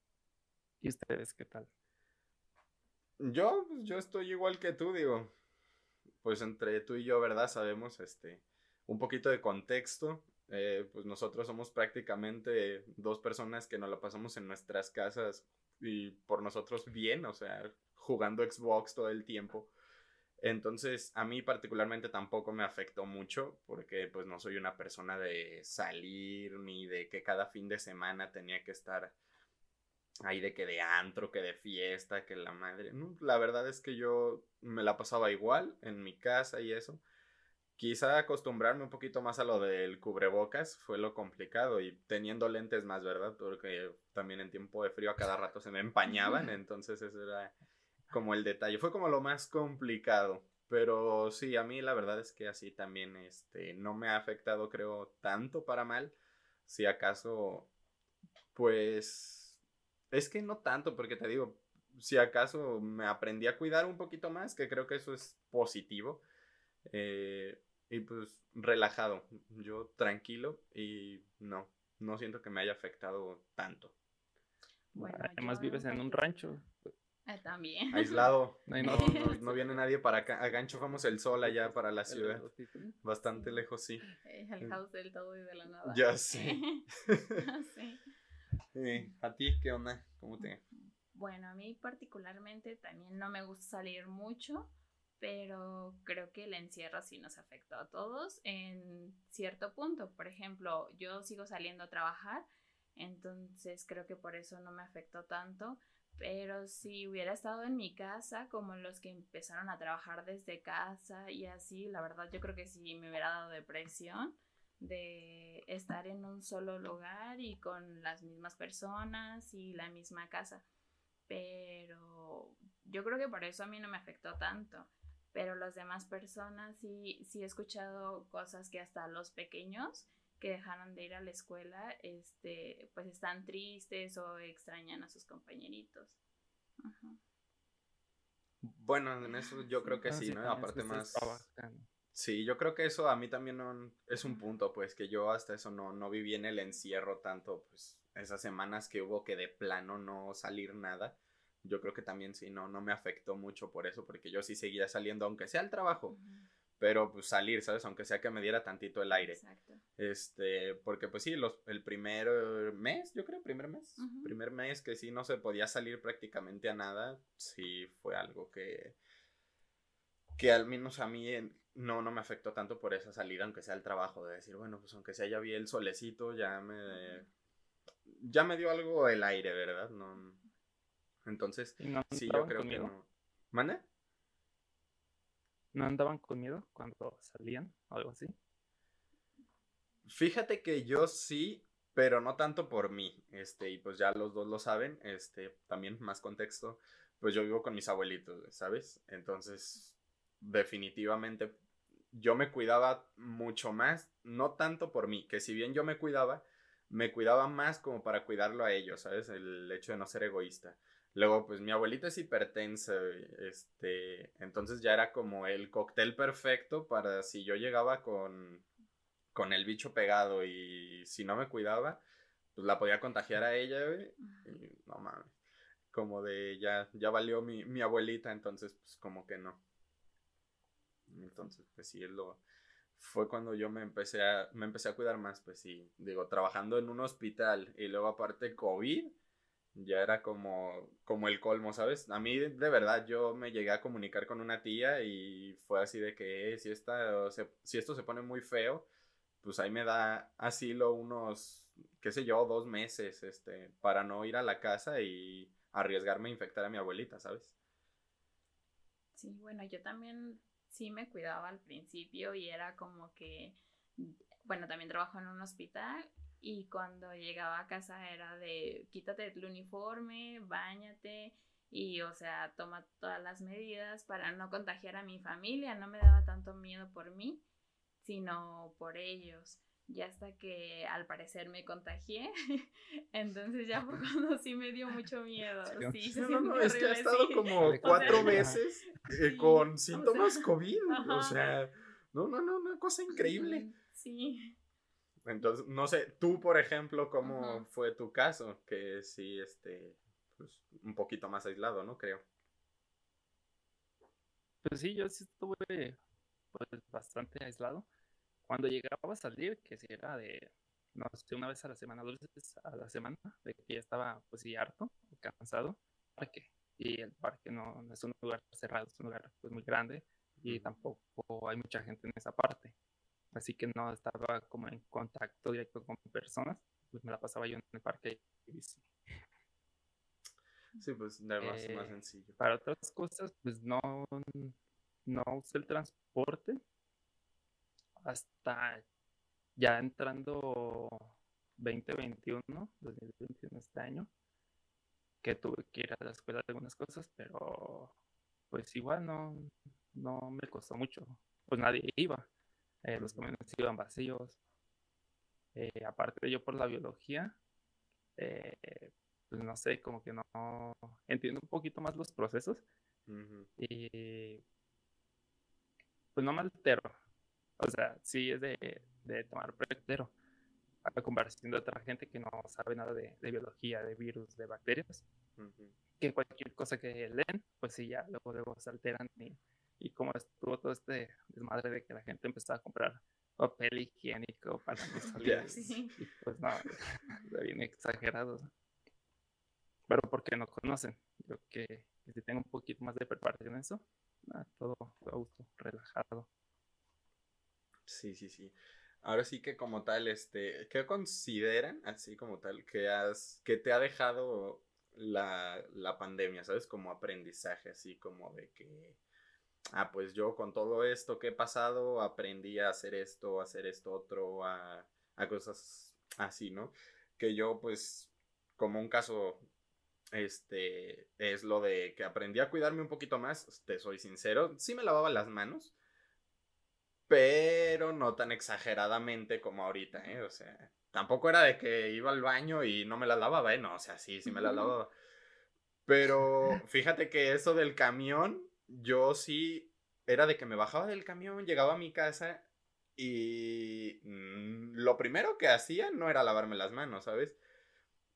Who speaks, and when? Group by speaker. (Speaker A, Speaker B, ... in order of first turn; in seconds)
Speaker A: 0.8-1.7, 75.0-76.9, 78.7-79.8, 80.7-82.8, 140.0-141.9, 181.8-182.9, 185.7-188.3, 285.7-286.0, 287.6-288.6, 304.6-306.0, 306.5-307.9, 308.4-322.7, 323.3-328.9, 331.4-336.6, 338.0-338.8, 339.6-344.1, 345.2-347.9, 348.5-352.3, 352.8-354.4, 355.5-357.4, 358.1-362.6, 363.6-364.4, 366.1-366.9, 367.6-370.1, 370.8-375.0, 376.0-388.5, 389.9-396.3
Speaker B: 3.2-5.3, 6.2-19.7, 20.4-29.1, 30.2-37.0, 37.8-47.5, 48.1-56.1, 56.6-57.7, 58.5-59.6, 60.1-66.2, 66.8-73.9, 77.9-82.5, 83.0-84.0, 85.8-87.4, 88.7-90.6, 138.6-141.4, 142.1-156.2, 156.8-159.4, 160.0-168.9, 170.4-177.2, 178.1-180.4, 181.2-183.8, 190.1-201.5, 202.1-218.6, 219.3-222.0, 222.5-225.3, 225.9-229.6, 231.1-232.4, 232.9-239.1, 239.7-248.8, 249.4-257.5, 286.1-293.6, 295.2-302.2, 320.4-320.7, 330.8-332.4, 353.0-353.2, 363.1-363.5, 375.4-375.7, 385.1-385.9, 397.9-409.0, 409.7-419.4, 420.1-425.7, 427.1-434.9, 435.9-442.4, 443.0-447.4
Speaker C: 74.9-76.3, 77.2-79.3, 82.8-86.8, 87.4-88.0, 91.1-120.6, 121.3-136.2, 136.8-137.2, 139.2-140.0, 156.1-156.5, 159.1-159.8, 164.0-164.3, 176.9-177.2, 259.1-277.4, 278.0-291.4, 293.1-294.5, 297.2-297.7, 385.0-385.9, 434.3-434.7